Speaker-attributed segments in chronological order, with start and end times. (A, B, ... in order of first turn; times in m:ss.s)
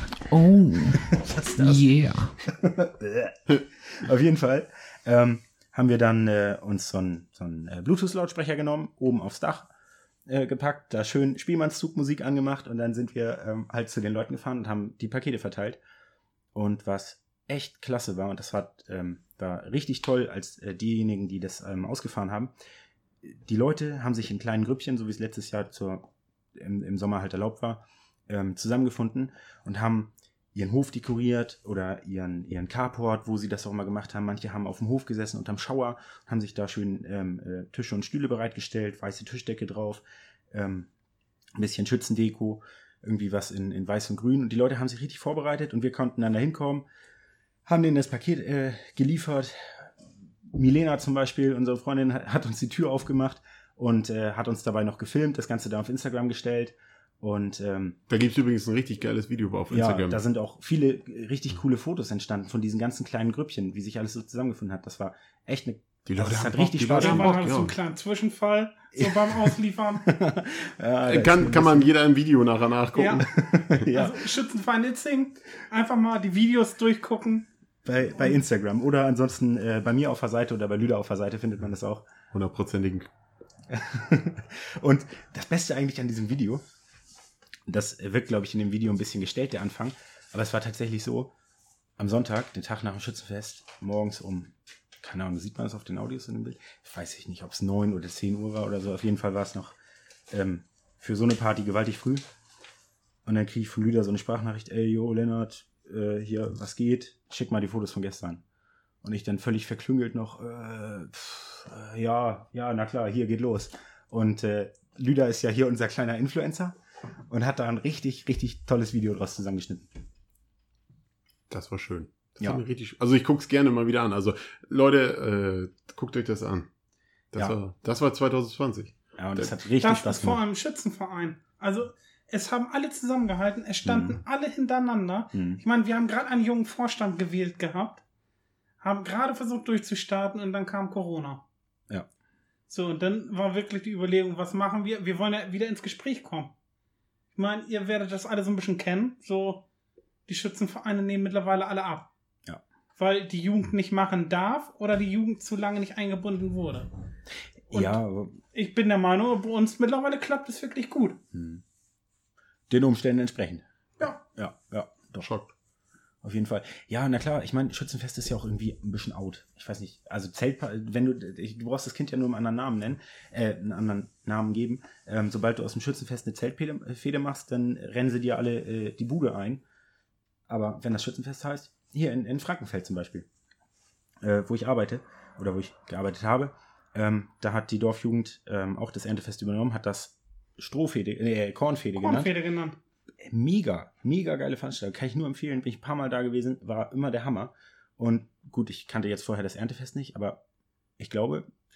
0:00.3-0:02.3 A
0:01.0-0:01.9 B
0:02.4-0:09.7 B
0:10.3-0:15.8 B
0:16.5-0:22.5 B
0:23.2-0:40.9 B
0:41.6-0:46.9 B
0:47.7-0:49.9 B
0:50.5-0:58.0 B
0:58.1-1:00.2 C
0:59.7-1:07.4 B
1:06.1-1:07.8 C
1:06.9-1:10.2 D
1:09.0-1:11.9 B
1:11.0-1:13.3 C
1:13.0-1:17.5 D
1:13.3-1:14.2 B
1:17.8-1:22.1 B
1:22.3-1:23.1 C
1:23.7-1:26.6 B
1:27.7-1:31.3 B
1:32.0-1:39.8 B
1:40.3-1:42.2 B
1:43.2-1:48.4 B
1:49.0-1:56.8 B
1:57.3-1:59.9 B
2:01.5-2:06.7 C
2:07.3-2:09.5 C
2:09.2-2:10.4 B
2:09.8-2:18.0 D
2:13.8-2:14.2 B
2:15.3-2:15.6 B
2:18.8-2:21.4 D
2:22.7-2:26.5 D
2:27.4-2:29.6 D
2:30.3-2:32.1 D
2:33.0-2:36.9 D
2:37.7-2:38.4 B
2:37.7-2:38.0 D
2:38.5-2:41.2 D
2:41.3-2:41.6 B
2:42.7-2:43.7 B
2:44.3-2:45.3 B
2:45.2-2:45.5 C
2:46.2-2:59.6 B
3:00.5-3:03.3 B
3:04.2-3:12.3 B
3:12.0-3:12.8 D
3:13.2-3:20.4 B
3:21.0-3:21.5 B